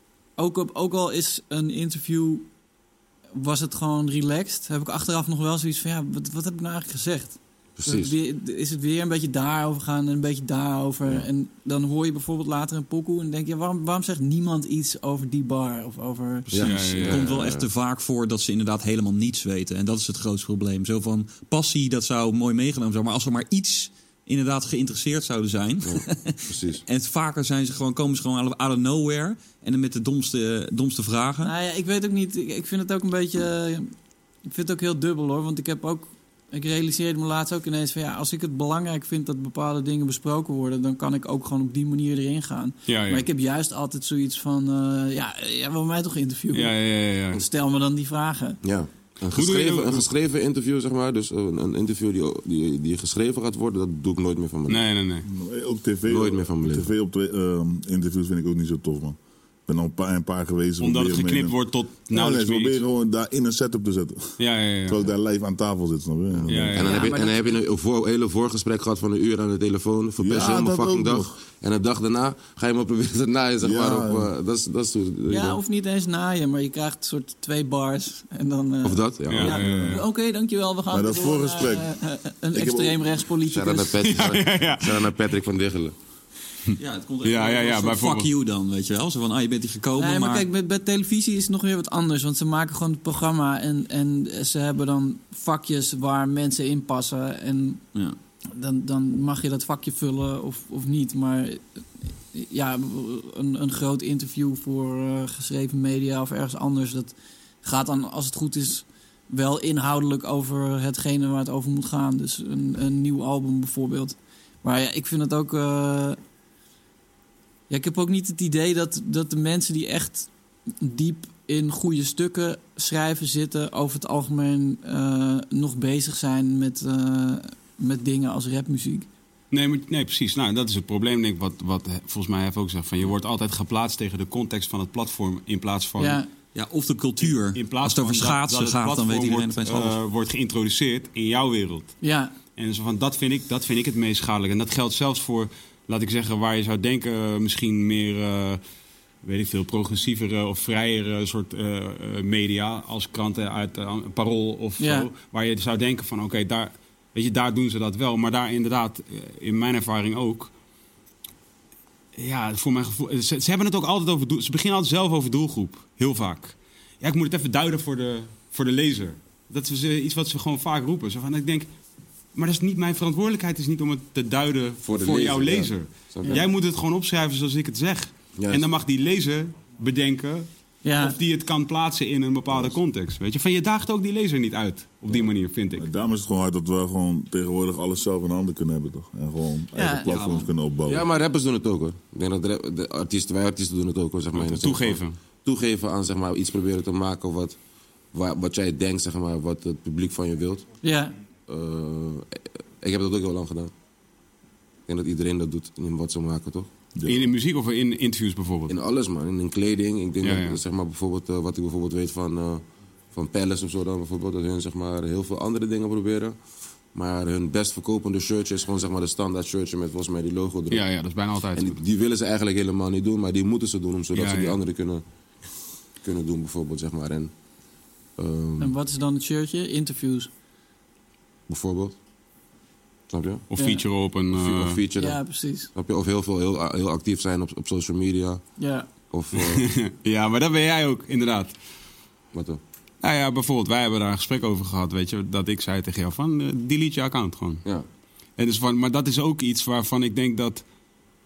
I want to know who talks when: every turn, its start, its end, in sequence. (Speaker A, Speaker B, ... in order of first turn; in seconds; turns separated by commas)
Speaker A: 0.4-2.5, Speaker A: 3.3-16.7, Speaker B: 7.8-8.2, Speaker B: 16.5-17.7, Speaker C: 16.6-17.3, Speaker D: 16.7-31.5, Speaker B: 25.8-26.8, Speaker A: 31.4-33.9, Speaker A: 34.5-46.8, Speaker C: 42.9-43.3, Speaker C: 46.5-47.4, Speaker A: 47.3-48.6, Speaker B: 48.6-54.9, Speaker C: 49.3-50.1, Speaker C: 54.7-55.3, Speaker E: 55.3-61.6, Speaker B: 56.1-56.9, Speaker C: 60.8-62.8, Speaker E: 62.1-66.8, Speaker C: 64.4-65.1, Speaker B: 66.3-75.6, Speaker C: 66.5-67.1, Speaker A: 66.8-67.6, Speaker E: 70.2-71.3, Speaker E: 73.6-74.3, Speaker A: 75.3-84.0, Speaker B: 78.8-79.6, Speaker C: 79.3-80.0, Speaker E: 79.5-80.0, Speaker E: 80.9-82.0, Speaker E: 82.5-83.0, Speaker B: 83.5-86.0, Speaker C: 84.0-85.1, Speaker C: 86.7-88.3, Speaker D: 86.8-90.5, Speaker A: 90.0-97.8, Speaker A: 98.5-116.2, Speaker A: 117.7-120.3, Speaker A: 120.8-129.1, Speaker C: 129.5-136.2, Speaker A: 136.0-136.3, Speaker D: 136.5-140.0, Speaker C: 137.2-142.0, Speaker A: 142.0-142.3, Speaker C: 142.6-148.6, Speaker C: 149.2-160.5, Speaker A: 154.8-155.1, Speaker C: 162.2-171.7, Speaker C: 172.3-185.9, Speaker B: 174.8-176.4, Speaker B: 178.4-178.7, Speaker A: 180.8-181.2, Speaker E: 185.8-191.1, Speaker A: 189.8-190.4, Speaker D: 190.1-190.5, Speaker B: 190.9-197.6, Speaker C: 194.3-195.2, Speaker B: 198.1-200.7, Speaker A: 200.8-201.2, Speaker B: 201.5-203.7, Speaker B: 204.9-206.7, Speaker E: 207.0-207.3, Speaker C: 207.1-208.7, Speaker B: 208.7-216.4, Speaker C: 210.2-210.6, Speaker B: 216.9-220.8, Speaker C: 220.7-221.8, Speaker B: 221.6-225.0, Speaker C: 224.1-224.6, Speaker B: 226.0-227.3, Speaker B: 228.2-228.8, Speaker A: 228.6-230.3, Speaker B: 231.5-232.0, Speaker B: 233.1-233.5, Speaker C: 233.5-234.8, Speaker A: 233.6-233.8, Speaker B: 234.3-238.5, Speaker A: 235.0-235.7, Speaker A: 238.6-238.9, Speaker B: 239.1-239.7, Speaker C: 239.3-241.6, Speaker B: 242.3-242.6, Speaker C: 243.0-247.6, Speaker C: 248.4-250.7